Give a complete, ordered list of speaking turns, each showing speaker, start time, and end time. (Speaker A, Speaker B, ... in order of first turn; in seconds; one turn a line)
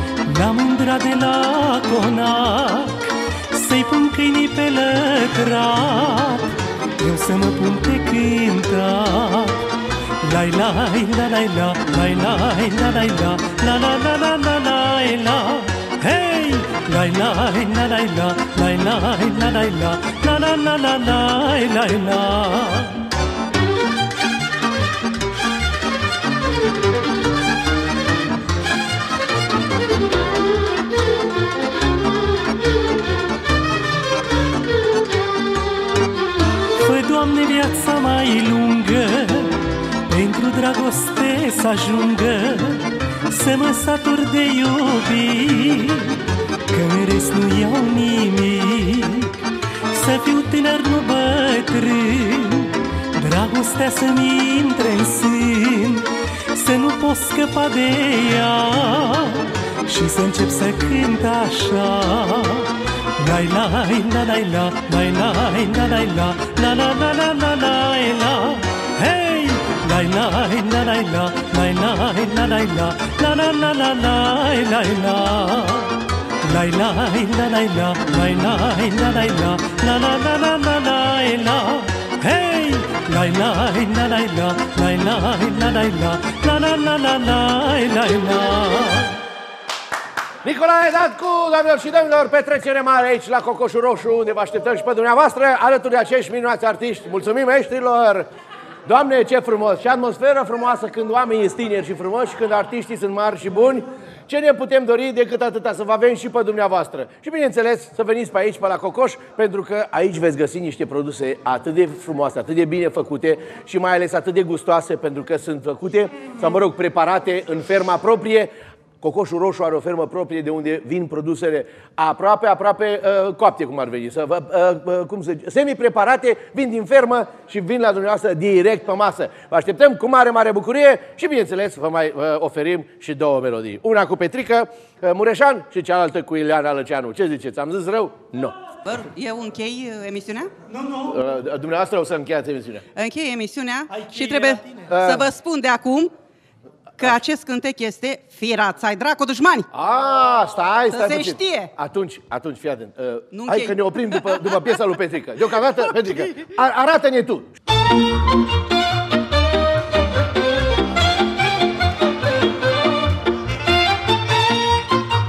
Speaker A: 0.3-9.6
Speaker A: 10.2-23.0
Speaker A: 36.8-46.2
Speaker A: 46.7-49.3
Speaker A: 49.9-75.9
Speaker A: 76.5-89.2
Speaker B: 90.4-98.3
Speaker B: 98.8-138.5
Speaker C: 138.8-140.6
Speaker B: 141.1-142.8
Speaker C: 142.9-146.1
Speaker B: 144.9-145.2
Speaker C: 147.0-149.7
Speaker B: 149.7-157.5
Speaker C: 150.9-151.7
Speaker C: 153.3-154.8
Speaker C: 155.8-156.2